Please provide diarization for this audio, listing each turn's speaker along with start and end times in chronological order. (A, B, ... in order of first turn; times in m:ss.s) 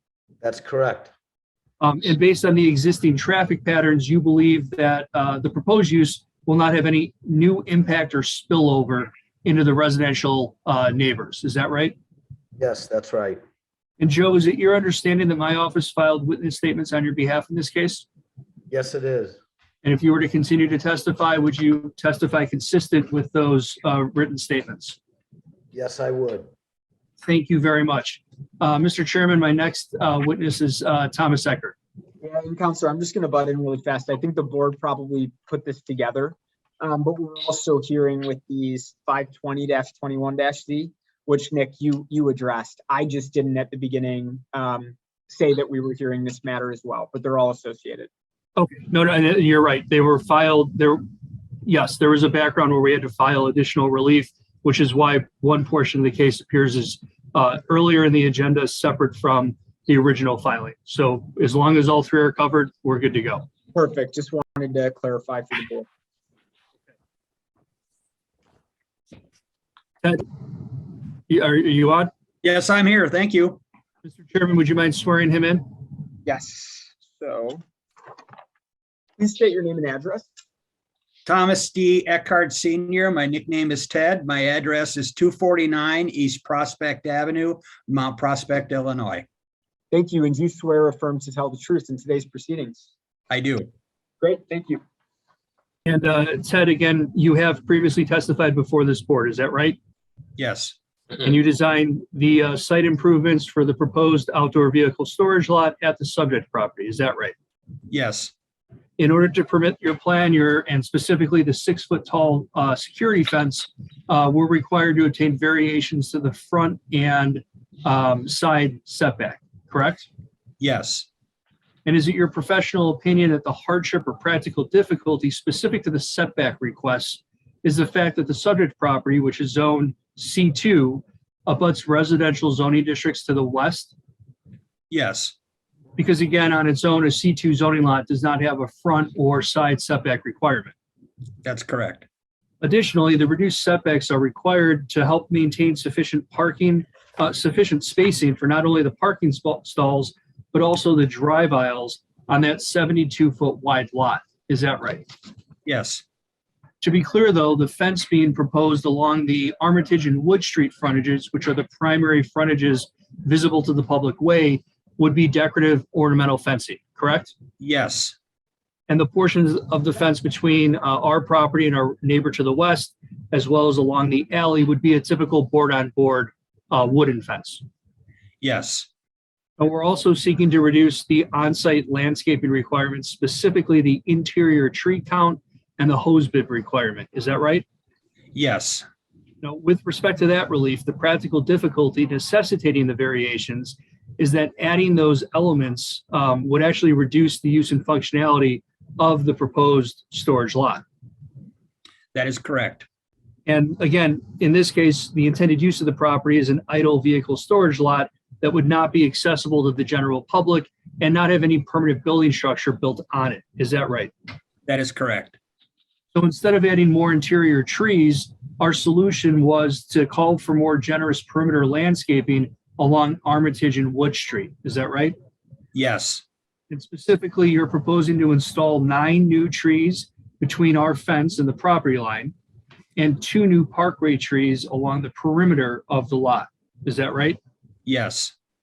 0:00.4-0:01.1 A
0:01.8-0:12.0 B
0:12.6-0:13.4 A
0:14.0-0:18.0 B
0:18.7-0:19.4 A
0:19.8-0:25.0 B
0:25.7-0:26.5 A
0:27.2-0:31.8 B
0:32.2-0:48.1 C
0:48.6-0:51.0 B
0:51.6-1:03.5 B
1:03.7-1:05.9 C
1:11.3-1:12.1 B
1:12.4-1:13.6 D
1:14.0-1:15.6 B
1:16.2-1:17.6 C
1:19.2-1:20.3 C
1:21.2-1:29.2 D
1:29.9-1:32.8 C
1:33.3-1:33.7 D
1:34.2-1:34.8 C
1:35.8-1:39.8 B
1:40.4-1:40.8 D
1:41.2-1:47.3 B
1:47.9-1:48.3 D
1:49.0-2:00.1 B
2:00.6-2:01.1 D
2:01.8-2:13.9 B
2:14.9-2:15.3 D
2:16.0-2:20.7 B
2:21.4-2:22.0 D
2:22.6-2:35.1 B
2:35.6-2:36.0 D
2:36.8-2:47.3 B
2:47.6-2:48.2 D
2:48.9-2:57.6 B
2:58.4-2:58.9 D
2:59.6-3:07.6 B
3:08.3-3:08.8 D
3:09.4-3:20.8 B
3:22.1-3:22.8 D
3:23.4-3:34.1 B
3:34.7-3:35.4 D
3:36.1-3:45.1 B
3:45.7-3:46.2 D
3:46.7-3:52.3 B
3:53.0-3:57.4 B
3:57.8-3:58.3 D